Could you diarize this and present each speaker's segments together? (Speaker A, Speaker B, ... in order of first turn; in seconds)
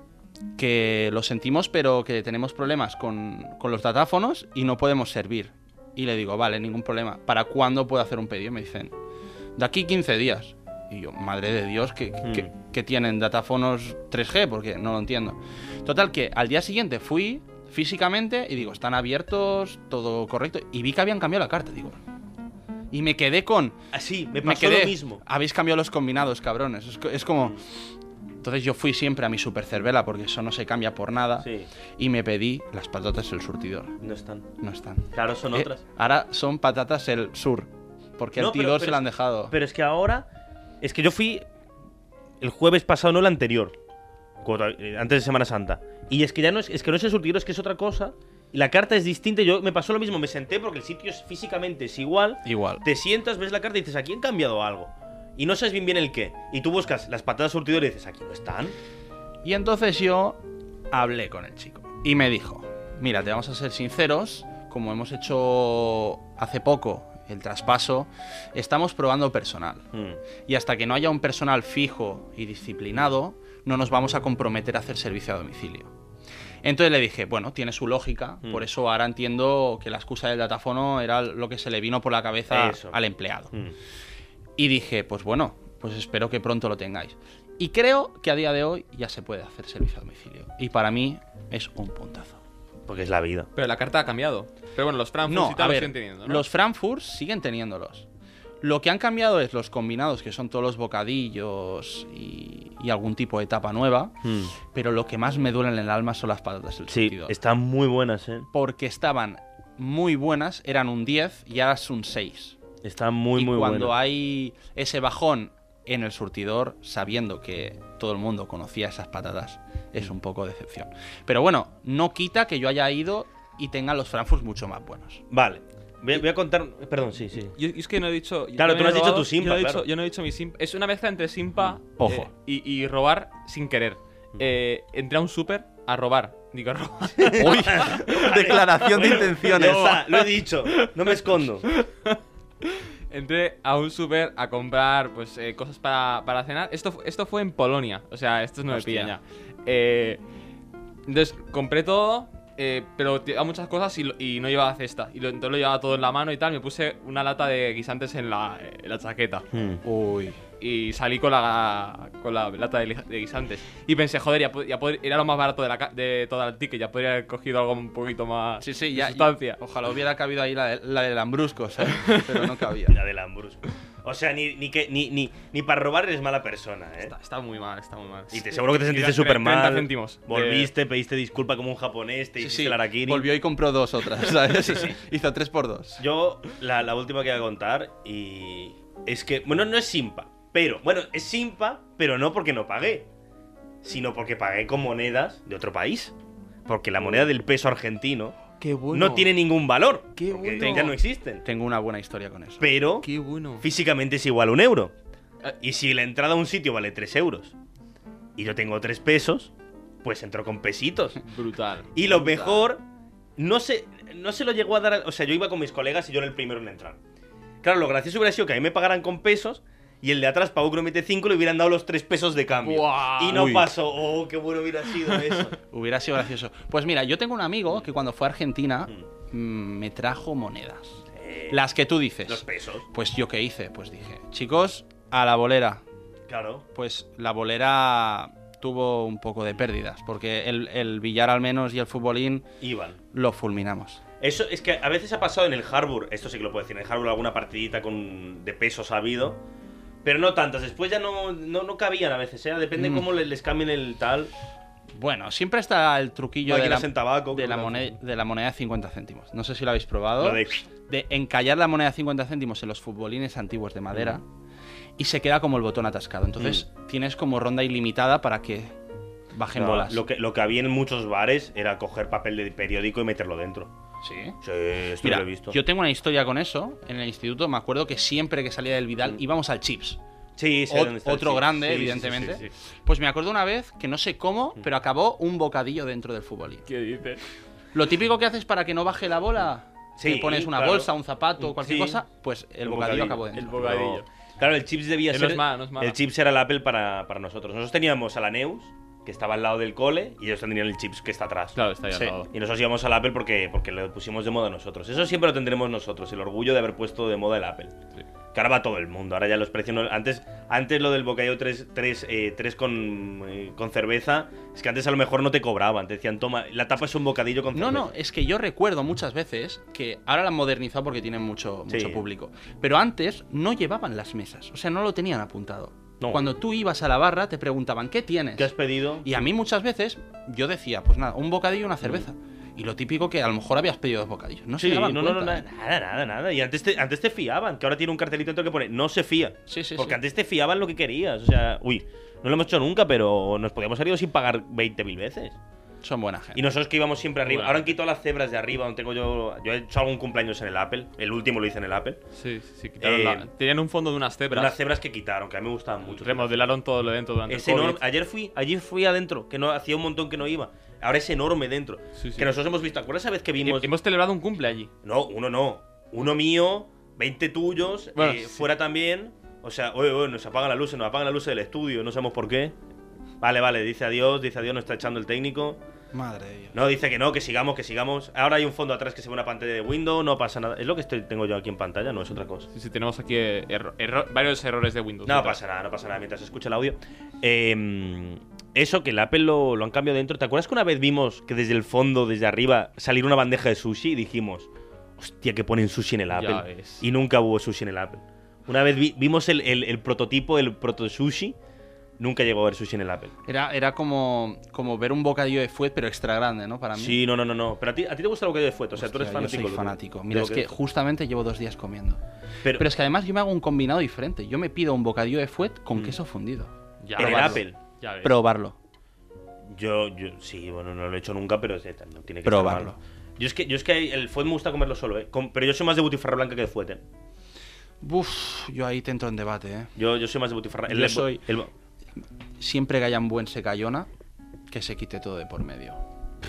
Speaker A: 0.6-8.9, 9.6-22.0, 22.9-23.8, 24.4-27.8, 28.4-34.0, 34.6-39.5, 52.4-52.8, 59.4-69.9, 70.5-75.9, 76.6-83.5, 84.6-92.4, 95.2-98.1, 98.6-107.3, 108.5-112.6, 113.3-125.2, 132.0-132.3, 137.4-139.9, 148.7-149.2, 159.8-160.4, 168.6-173.0, 182.4-186.0, 200.6-202.7, 212.1-212.6, 223.3-223.7, 225.7-235.8, 236.7-242.4, 243.1-244.0, 252.8-253.0, 255.0-264.2, 265.0-268.7, 269.3-270.0, 274.0-274.4, 275.0-280.0, 280.7-286.6, 287.7-294.0, 317.5-328.5, 329.0-335.4, 339.5-340.0, 345.8-346.4, 375.9-376.6, 403.3-407.0, 408.8-412.0, 412.5-417.4, 418.0-418.6, 422.2-422.8, 427.8-429.7, 430.7-431.2, 432.4-433.9, 434.5-435.8
Speaker B: 23.9-25.2, 31.4-31.7, 34.0-34.5, 35.1-35.8, 38.4-40.3, 40.8-41.5, 42.4-43.7, 44.4-58.7, 69.9-70.2, 82.5-83.0, 92.9-93.5, 104.2-104.5, 106.9-108.5, 112.8-113.9, 125.3-127.5, 128.6-129.8, 137.2-141.7, 159.5-159.8, 172.9-177.1, 178.3-183.3, 186.0-193.1, 193.8-196.1, 196.7-198.4, 198.9-201.4, 202.6-203.1, 203.6-204.9, 205.6-207.5, 208.4-211.2, 211.9-212.8, 213.4-217.0, 217.6-225.6, 231.1-231.6, 232.3-232.8, 236.3-236.6, 242.6-243.0, 244.2-249.4, 250.0-254.3, 256.4-257.9, 260.2-260.6, 263.9-264.2, 269.5-273.7, 274.4-275.6, 280.4-282.5, 290.0-292.0, 292.6-301.6, 302.3-307.7, 308.3-317.9, 321.7-322.0, 328.4-329.2, 334.6-345.4, 346.3-352.0, 352.8-353.3, 354.3-356.4, 357.3-363.7, 364.8-372.5, 373.2-375.6, 376.5-382.5, 385.1-401.4, 402.0-403.1, 406.7-410.5, 417.0-417.6, 419.5-426.8, 429.8-431.5
Speaker C: 93.5-96.4, 127.5-150.2, 151.1-159.4, 160.6-169.6, 171.9-172.3, 177.0-180.7, 198.6-199.3, 200.2-200.9, 203.0-203.6, 211.2-211.9, 222.6-223.6, 225.1-225.4, 286.7-287.2, 293.4-294.1, 295.1-296.0, 301.5-302.3, 347.2-347.8, 352.1-354.6, 355.9-357.8, 361.9-362.3, 363.4-364.7, 367.9-368.4, 382.5-385.4, 396.1-396.8, 416.8-418.2